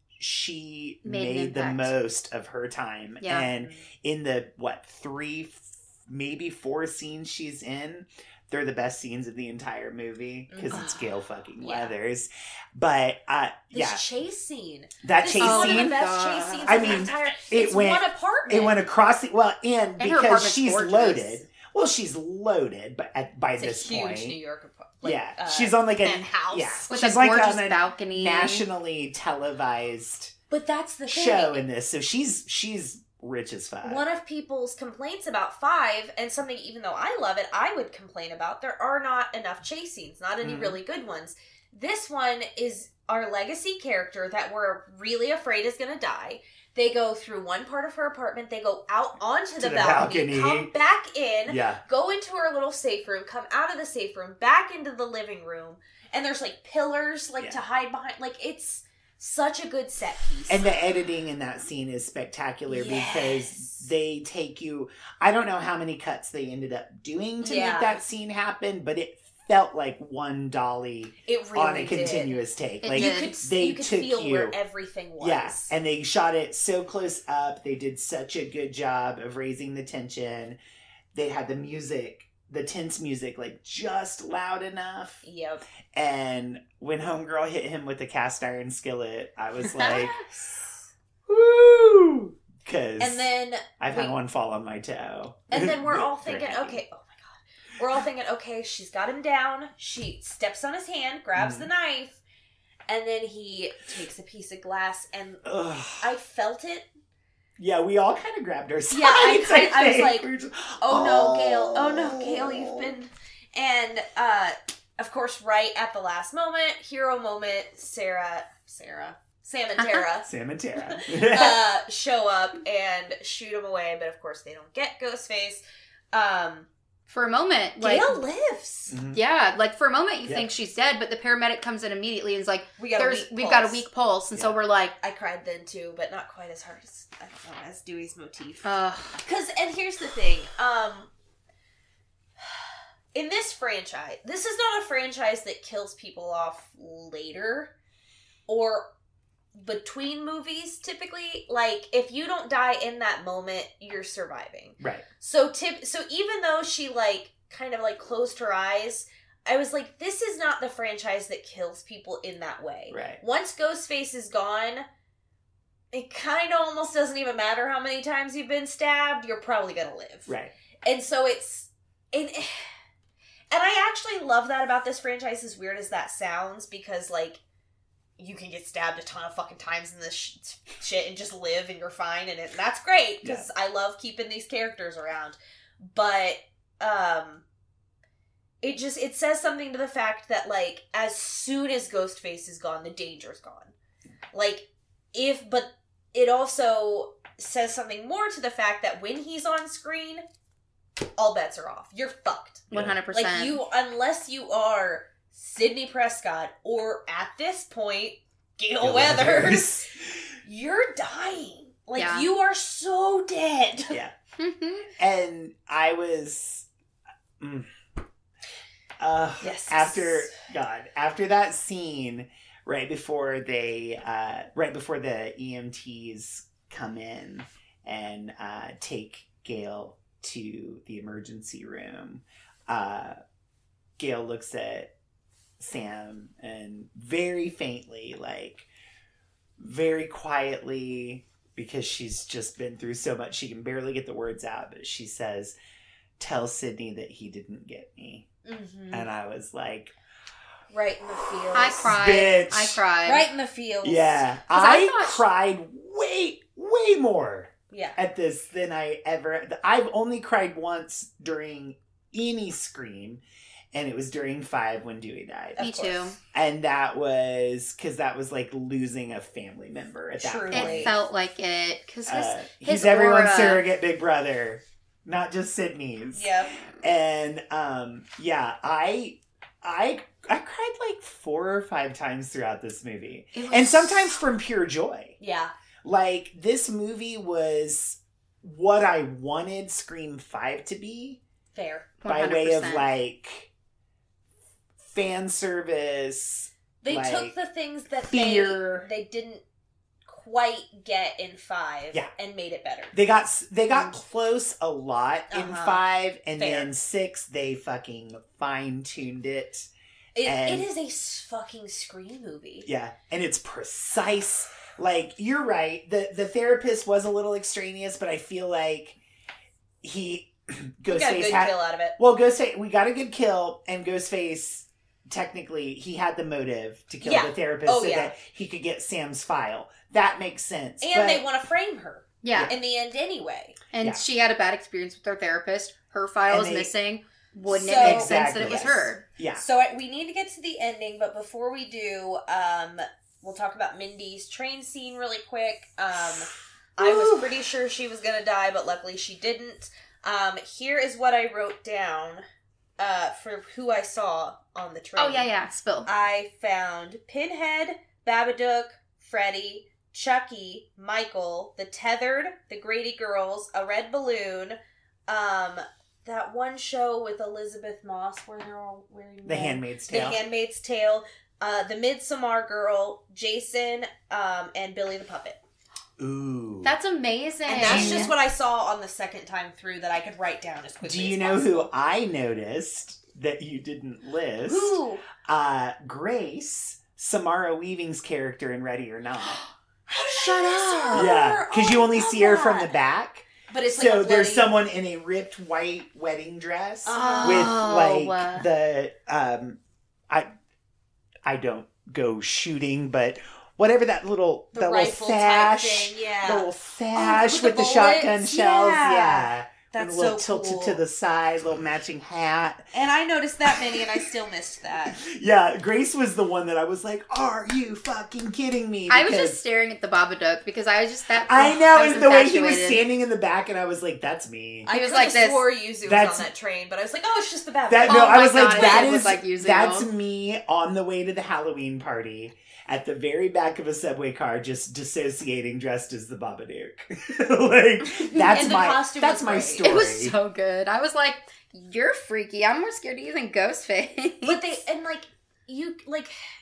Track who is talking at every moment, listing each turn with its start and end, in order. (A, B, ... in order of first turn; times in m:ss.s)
0:00.2-0:14.0 A
0:01.0-0:01.9 B
0:03.2-0:03.5 B
0:03.6-0:03.9 C
0:10.5-0:11.0 C
0:11.6-0:11.9 C
0:13.7-0:18.8 C
0:15.0-0:16.0 A
0:15.4-0:17.0 B
0:16.6-0:24.4 A
0:20.0-0:21.4 B
0:23.6-0:26.9 C
0:25.0-0:30.3 A
0:26.9-0:28.6 B
0:30.5-0:31.6 C
0:31.1-0:34.0 A
0:33.8-1:00.7 C
0:40.4-0:40.8 A
0:49.6-0:50.7 A
0:51.5-0:51.8 A
1:00.5-1:14.6 A
1:02.7-1:03.8 C
1:07.4-1:08.0 C
1:11.2-1:12.4 C
1:12.8-1:13.3 B
1:12.9-1:15.7 C
1:15.2-1:20.6 A
1:21.1-1:25.2 A
1:25.2-1:25.6 C
1:25.9-1:30.2 A
1:29.7-1:30.1 B
1:30.0-1:30.8 C
1:31.2-1:36.8 A
1:33.0-1:34.2 C
1:35.5-1:42.2 C
1:41.4-1:41.7 A
1:42.9-1:46.9 C
1:45.4-1:46.1 A
1:47.6-1:52.9 A
1:48.9-1:50.3 C
1:50.8-2:06.7 C
2:00.2-2:01.6 A
2:07.1-2:08.2 B
2:07.8-2:09.0 C
2:08.9-2:09.2 A
2:09.1-2:14.9 B
2:12.8-2:13.8 C
2:15.0-2:21.1 C
2:18.6-2:19.2 B
2:23.1-2:27.7 C
2:28.5-2:28.9 C
2:29.5-2:44.8 C
2:34.8-2:35.0 A
2:42.9-2:43.2 A
2:45.9-2:50.3 C
2:50.3-2:50.5 A
2:50.8-2:52.7 C
2:53.5-2:57.4 C
2:58.2-3:07.4 C
3:03.2-3:03.5 A
3:08.6-3:13.7 C
3:14.3-3:20.2 C
3:21.2-3:29.8 C
3:22.7-3:23.0 A
3:22.7-3:23.6 B
3:28.8-3:30.3 A
3:30.4-3:34.0 C
3:32.0-3:32.3 B
3:34.4-3:34.9 B
3:35.0-3:36.7 A
3:37.4-3:37.7 A
3:39.0-3:53.2 A
3:39.4-3:40.3 C
3:54.0-3:54.9 A
3:55.6-3:58.7 A
3:59.6-4:05.6 A
4:06.2-4:08.3 A
4:08.4-4:09.1 C
4:08.9-4:09.9 A
4:10.7-4:12.0 C
4:11.5-4:13.2 B
4:11.8-4:12.8 A
4:13.0-4:14.2 C
4:13.8-4:31.0 A
4:14.5-4:15.2 B
4:17.7-4:18.0 C
4:25.6-4:26.0 C
4:25.6-4:26.2 B
4:30.2-4:30.9 C
4:30.5-4:33.6 B
4:32.0-4:45.2 A
4:36.1-4:36.6 C
4:43.3-4:44.2 B
4:45.2-4:45.5 C
4:45.8-4:51.2 A
4:51.5-4:51.9 C
4:52.0-4:52.9 B
4:52.0-4:53.5 A
4:54.8-4:57.3 A
4:56.8-4:59.4 C
4:58.1-4:58.9 A
5:00.0-5:02.9 C
5:02.9-5:09.7 A
5:05.3-5:05.8 C
5:06.4-5:06.7 C
5:10.1-5:12.7 C
5:10.2-5:10.6 A
5:12.6-5:19.0 A
5:19.8-5:31.2 A
5:20.9-5:22.0 C
5:27.0-5:28.1 C
5:30.8-5:33.6 C
5:32.2-5:32.5 B
5:33.7-5:39.0 B
5:36.3-5:36.7 A
5:37.5-5:38.8 C
5:37.8-5:39.4 A
5:39.4-5:52.2 C
5:46.8-5:47.2 B
5:52.8-5:55.3 C
5:55.0-5:55.9 B
5:55.8-6:15.4 C
6:09.2-6:10.2 A
6:16.0-6:16.7 A
6:16.6-6:18.1 B
6:17.5-6:21.7 C
6:17.6-6:18.1 A
6:20.8-6:29.4 A
6:24.4-6:25.0 C
6:29.9-6:32.7 C
6:30.1-6:31.2 B
6:30.9-6:39.6 A
6:33.5-6:34.5 C
6:36.8-6:37.6 C
6:36.9-6:38.5 B
6:41.2-6:52.6 A
6:44.5-6:50.8 C
6:52.7-6:55.0 C
6:53.5-6:54.1 A
6:54.9-6:59.4 A
6:58.9-7:02.8 B
7:01.2-7:04.7 A
7:04.7-7:09.0 C
7:04.7-7:05.4 B
7:05.8-7:06.3 A
7:07.7-7:20.1 A
7:07.9-7:09.9 B
7:17.8-7:18.4 B
7:18.3-7:19.7 C
7:19.6-7:24.6 B
7:24.2-7:26.1 C